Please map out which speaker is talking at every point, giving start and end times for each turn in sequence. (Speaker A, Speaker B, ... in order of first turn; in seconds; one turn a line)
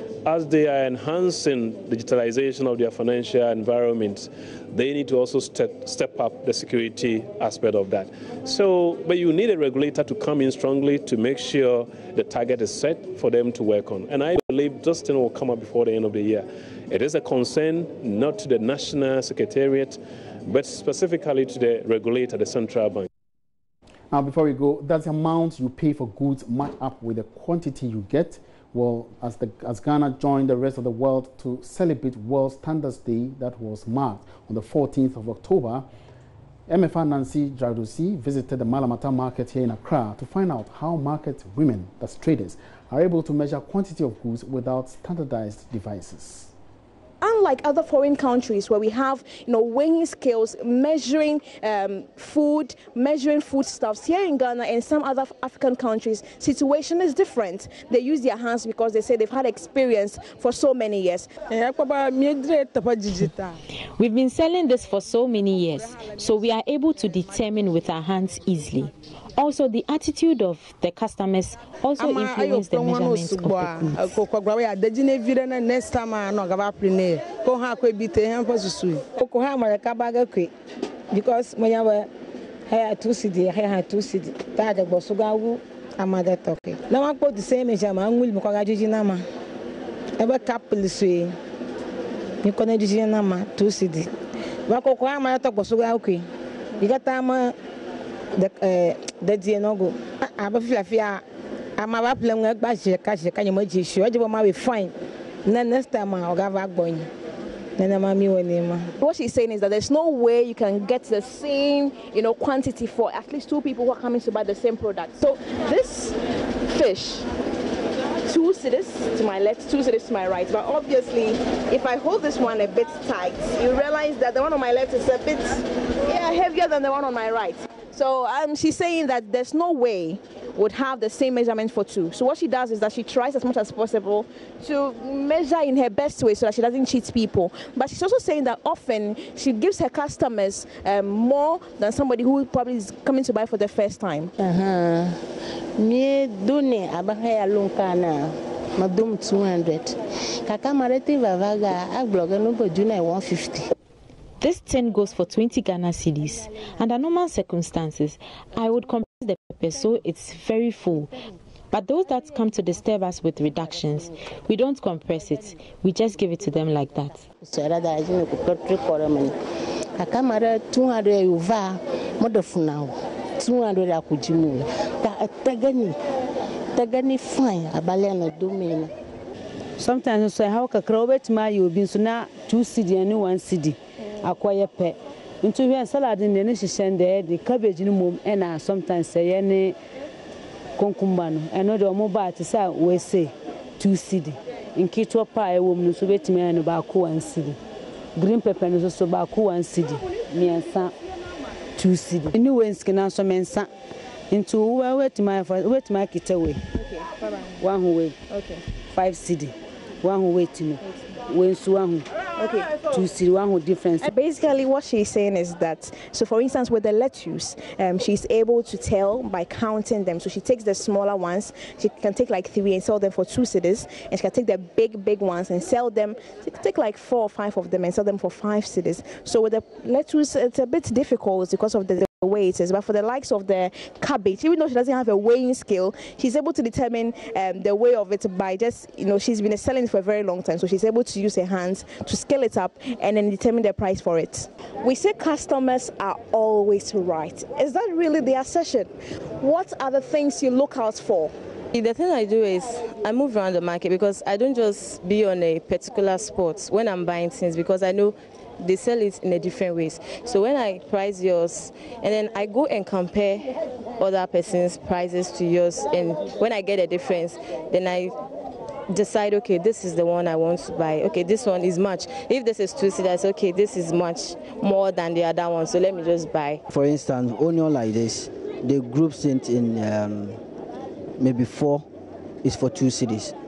Speaker A: 0.2-23.1
Speaker B: 24.1-35.9
Speaker B: 36.7-46.5
Speaker C: 47.2-61.3
Speaker D: 61.5-63.6
Speaker E: 64.0-74.1
Speaker D: 72.0-80.5
Speaker D: 81.1-82.1
Speaker D: 82.7-89.2
Speaker D: 90.2-91.3
Speaker D: 92.4-94.1
Speaker D: 94.7-96.3
Speaker D: 96.8-97.5
Speaker D: 98.4-101.2
Speaker D: 101.8-104.9
Speaker D: 105.5-107.1
Speaker D: 107.8-108.9
Speaker C: 109.0-117.3
Speaker C: 118.2-144.3
Speaker F: 144.4-145.3
Speaker F: 145.8-153.7
Speaker E: 154.4-167.3
Speaker F: 167.4-169.3
Speaker F: 170.0-175.9
Speaker F: 176.7-178.9
Speaker G: 179.8-189.8
Speaker G: 190.8-197.6
Speaker G: 198.2-200.9
Speaker G: 201.8-203.7
Speaker G: 204.3-206.7
Speaker C: 206.9-207.3
Speaker G: 207.6-208.2
Speaker C: 208.3-208.6
Speaker G: 208.9-212.1
Speaker C: 212.4-212.8
Speaker G: 212.9-214.1
Speaker C: 214.0-251.3
Speaker H: 251.7-268.1
Speaker H: 268.9-276.6
Speaker I: 276.7-280.4
Speaker I: 281.2-281.9
Speaker I: 282.4-283.3